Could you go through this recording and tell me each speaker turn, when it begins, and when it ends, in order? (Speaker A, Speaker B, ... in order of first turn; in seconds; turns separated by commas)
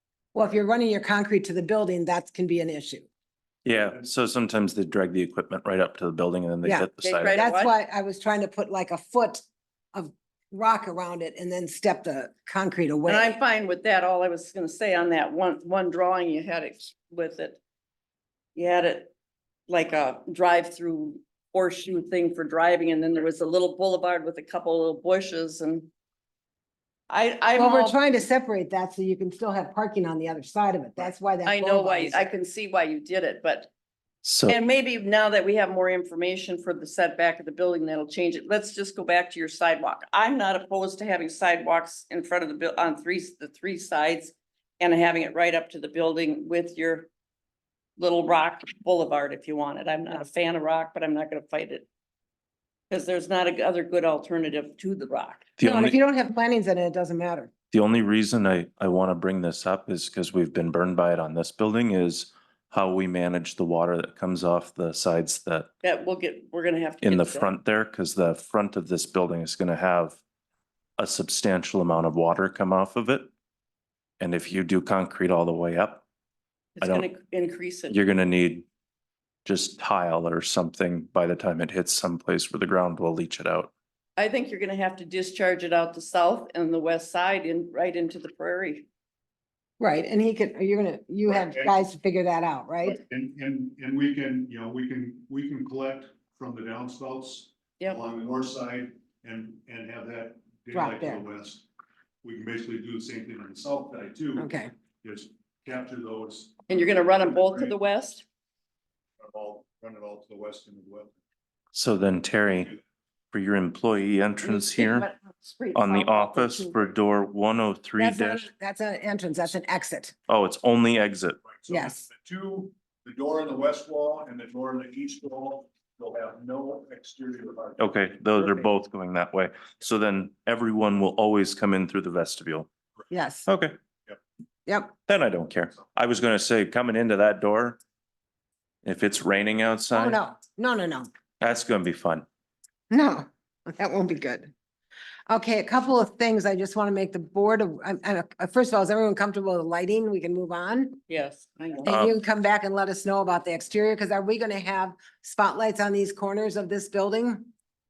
Speaker A: 0.3-3.1, Speaker B: 3.6-7.4, Speaker A: 6.6-13.3, Speaker C: 7.0-7.7, Speaker C: 13.1-17.6, Speaker C: 18.5-19.1, Speaker C: 19.7-25.9, Speaker C: 27.1-28.0, Speaker A: 27.6-32.3, Speaker C: 31.4-33.7, Speaker B: 34.2-34.6, Speaker C: 34.5-47.1, Speaker C: 48.0-51.9, Speaker C: 52.9-55.5, Speaker B: 55.6-56.0, Speaker A: 55.6-57.5, Speaker B: 57.7-65.7, Speaker C: 65.8-67.5, Speaker B: 67.0-70.2, Speaker B: 71.0-73.3, Speaker B: 74.2-76.0, Speaker C: 76.8-78.0, Speaker B: 76.8-77.0, Speaker B: 77.9-78.7, Speaker B: 79.4-83.7, Speaker C: 84.2-88.8, Speaker A: 89.8-93.0, Speaker D: 91.3-91.8, Speaker D: 92.8-101.6, Speaker A: 100.7-101.2, Speaker D: 102.2-104.5, Speaker A: 104.4-104.7, Speaker D: 105.0-107.7, Speaker C: 106.7-108.2, Speaker D: 109.2-111.2, Speaker B: 111.7-112.7, Speaker D: 112.5-112.8, Speaker B: 113.3-115.1, Speaker C: 114.4-116.8, Speaker B: 115.7-118.5, Speaker A: 118.0-120.1, Speaker B: 120.3-121.4, Speaker D: 121.5-127.9, Speaker A: 121.7-122.0, Speaker B: 127.8-132.7, Speaker A: 133.1-133.5, Speaker B: 133.5-133.8, Speaker A: 134.7-134.9, Speaker B: 135.1-137.8, Speaker B: 138.8-140.2, Speaker A: 139.9-141.1, Speaker B: 141.4-142.2, Speaker A: 142.9-144.5, Speaker A: 145.3-151.0, Speaker C: 151.1-151.9, Speaker A: 151.8-157.5, Speaker B: 151.9-152.2